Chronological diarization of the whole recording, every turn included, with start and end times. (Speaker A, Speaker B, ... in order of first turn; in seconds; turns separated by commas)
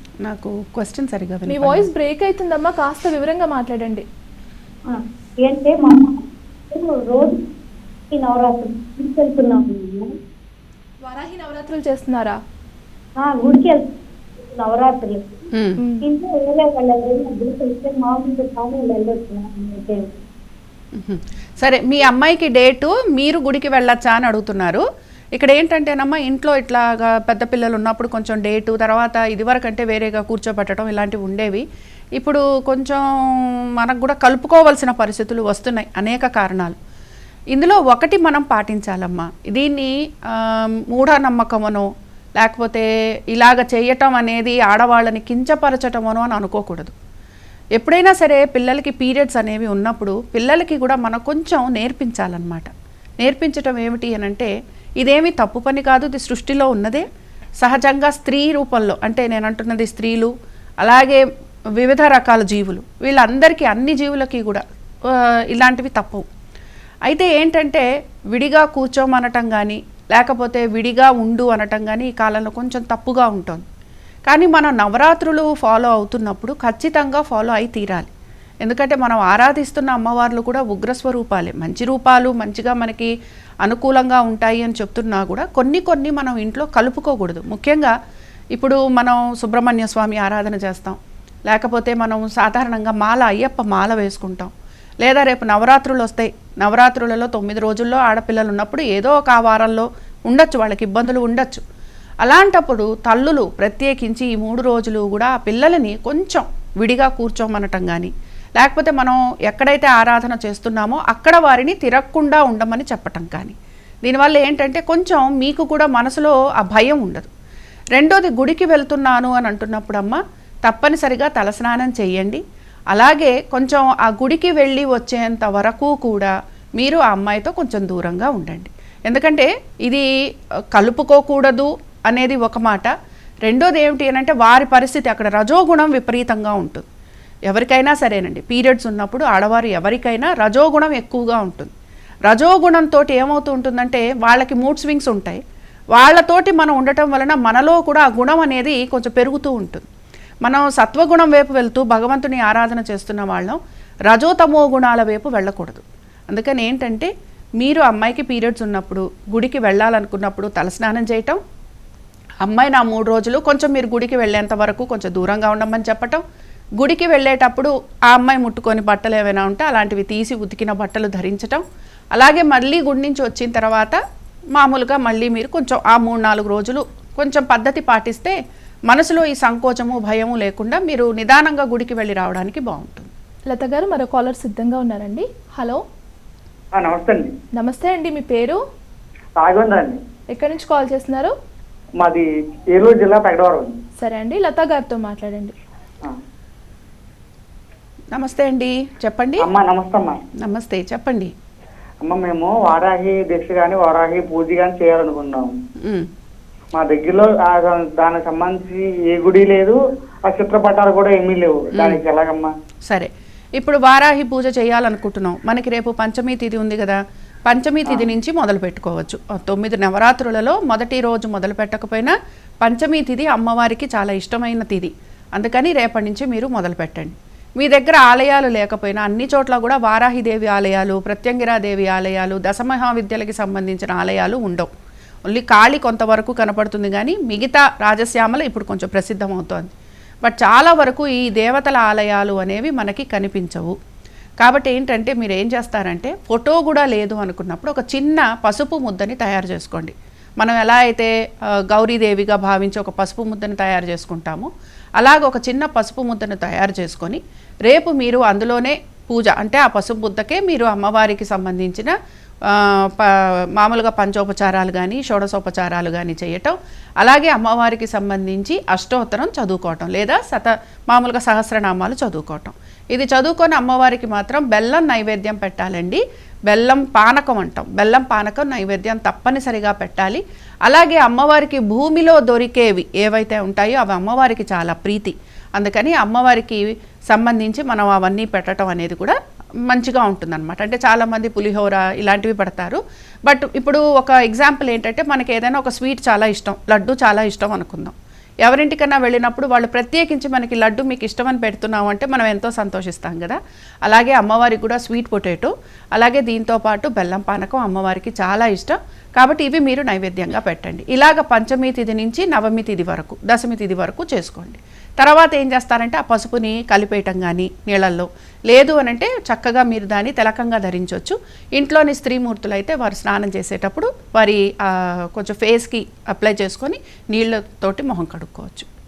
Speaker A: 0.2-1.9, Speaker B: 1.5-4.0, Speaker C: 4.9-7.4, Speaker C: 8.1-10.1, Speaker B: 11.0-12.4, Speaker C: 13.2-13.9, Speaker C: 14.5-15.4, Speaker C: 16.0-20.2, Speaker A: 20.9-24.8, Speaker A: 25.4-31.6, Speaker A: 32.2-33.0, Speaker A: 33.8-36.8, Speaker A: 37.5-46.9, Speaker A: 47.8-54.5, Speaker A: 55.0-57.0, Speaker A: 57.6-61.2, Speaker A: 61.8-66.2, Speaker A: 67.1-73.7, Speaker A: 74.3-78.1, Speaker A: 78.6-83.1, Speaker A: 83.6-87.9, Speaker A: 88.5-94.5, Speaker A: 95.0-101.6, Speaker A: 102.2-117.3, Speaker A: 117.9-122.4, Speaker A: 122.9-130.1, Speaker A: 130.7-132.9, Speaker A: 133.4-136.9, Speaker A: 137.5-141.7, Speaker A: 142.3-145.4, Speaker A: 145.9-149.9, Speaker A: 150.4-161.4, Speaker A: 162.4-166.2, Speaker A: 166.8-171.6, Speaker A: 172.2-174.0, Speaker A: 174.6-178.4, Speaker A: 178.9-183.1, Speaker B: 183.5-185.8, Speaker D: 186.8-187.3, Speaker B: 187.6-188.6, Speaker D: 189.4-190.0, Speaker B: 190.3-191.3, Speaker D: 192.0-193.8, Speaker B: 194.0-195.5, Speaker A: 198.1-199.4, Speaker D: 199.4-200.2, Speaker A: 200.4-201.3, Speaker D: 202.0-205.5, Speaker A: 205.8-206.1, Speaker D: 206.7-212.5, Speaker A: 212.9-234.7, Speaker A: 235.3-239.7, Speaker A: 240.2-243.8, Speaker A: 244.4-251.1, Speaker A: 251.7-261.9, Speaker A: 262.5-289.1, Speaker A: 289.7-328.7